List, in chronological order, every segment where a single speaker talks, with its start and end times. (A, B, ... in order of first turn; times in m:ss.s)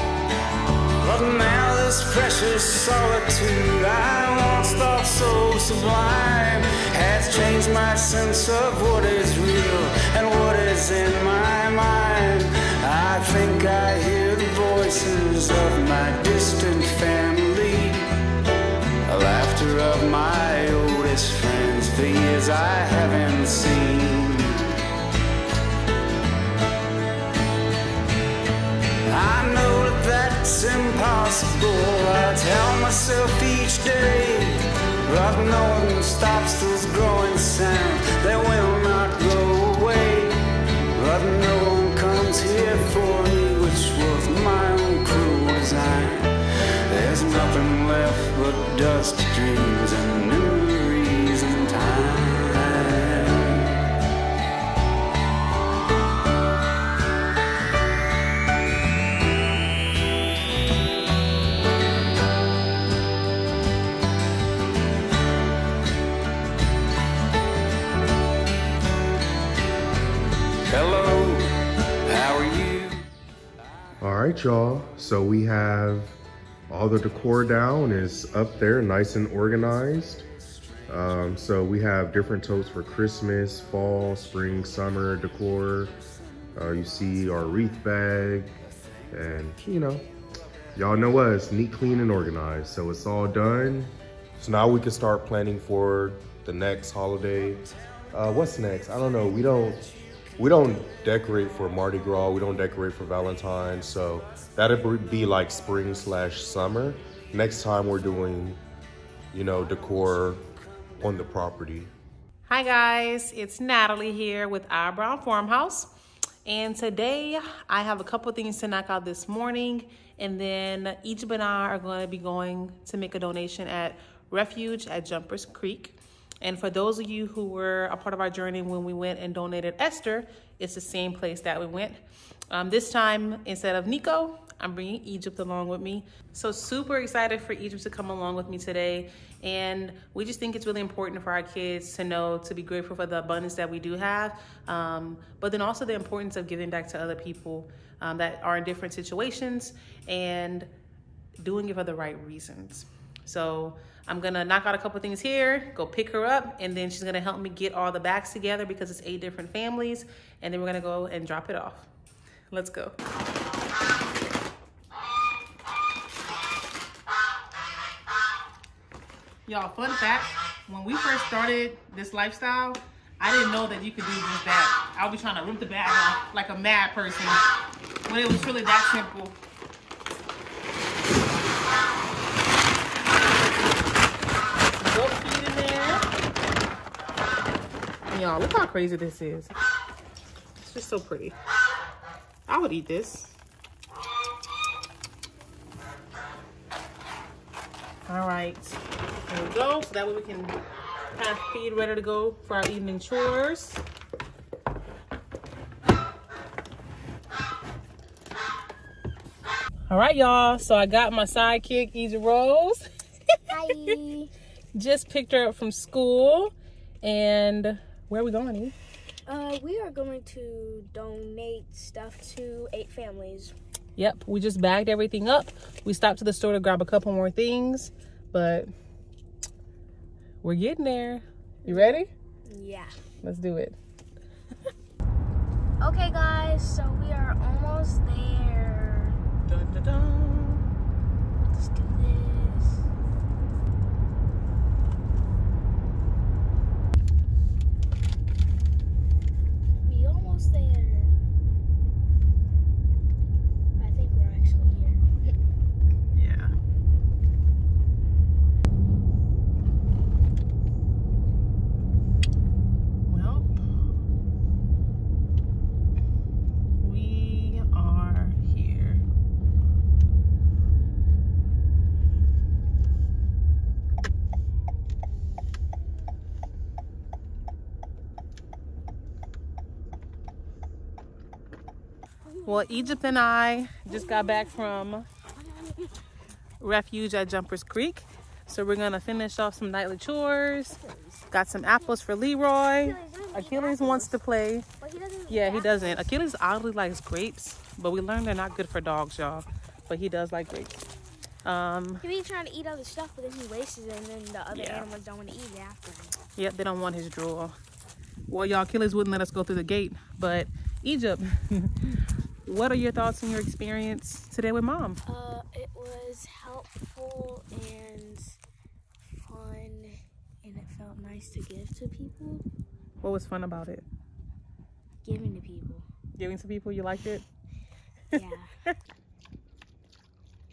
0:01.0-0:18.1 A
0:19.1-0:24.6 A
0:29.1-0:40.4 A
0:40.9-0:46.4 A
0:46.9-0:53.9 A
1:10.7-1:13.1 A
1:14.0-1:16.2 B
1:16.7-1:20.2 B
1:20.9-1:26.0 B
1:26.6-1:30.1 B
1:30.8-1:39.9 B
1:40.4-1:48.6 B
1:49.3-1:50.4 B
1:51.0-1:51.9 B
1:52.5-1:55.9 C
1:56.4-2:12.0 C
2:12.5-2:30.7 C
2:31.4-2:41.9 C
2:42.5-2:43.0 C
2:49.5-2:57.4 C
2:58.0-2:59.4 C
3:04.7-3:06.1 C
3:08.1-3:09.6 C
3:10.6-3:11.4 C
3:12.5-3:13.4 C
3:18.1-3:20.6 C
3:21.1-3:23.8 C
3:29.9-3:32.9 C
3:33.5-3:34.3 D
3:34.7-3:38.7 C
3:39.3-3:43.6 D
3:44.0-3:48.7 C
3:50.4-3:52.1 C
3:51.7-3:53.0 D
3:53.2-3:53.8 C
3:55.8-3:59.2 D
3:59.5-4:00.7 C
4:01.4-4:02.8 D
4:09.8-4:11.1 D
4:13.8-4:15.3 D
4:16.1-4:16.5 C
4:23.1-4:23.5 C
4:26.8-4:29.0 C
4:42.4-4:45.1 C
4:45.4-4:46.0 D
4:46.6-4:54.7 C
4:50.7-4:51.2 D
4:52.8-4:54.2 D
4:54.8-4:56.1 D
4:55.3-5:00.9 C
5:01.4-5:02.0 C
5:02.0-5:06.2 D
5:04.5-5:04.9 C
5:06.4-5:07.6 C
5:08.3-5:11.9 C
5:12.5-5:15.0 C
5:15.0-5:18.4 D
5:19.0-5:22.4 D
5:23.0-5:23.9 C
5:25.0-5:25.9 D
5:26.2-5:27.2 C
5:28.1-5:28.5 D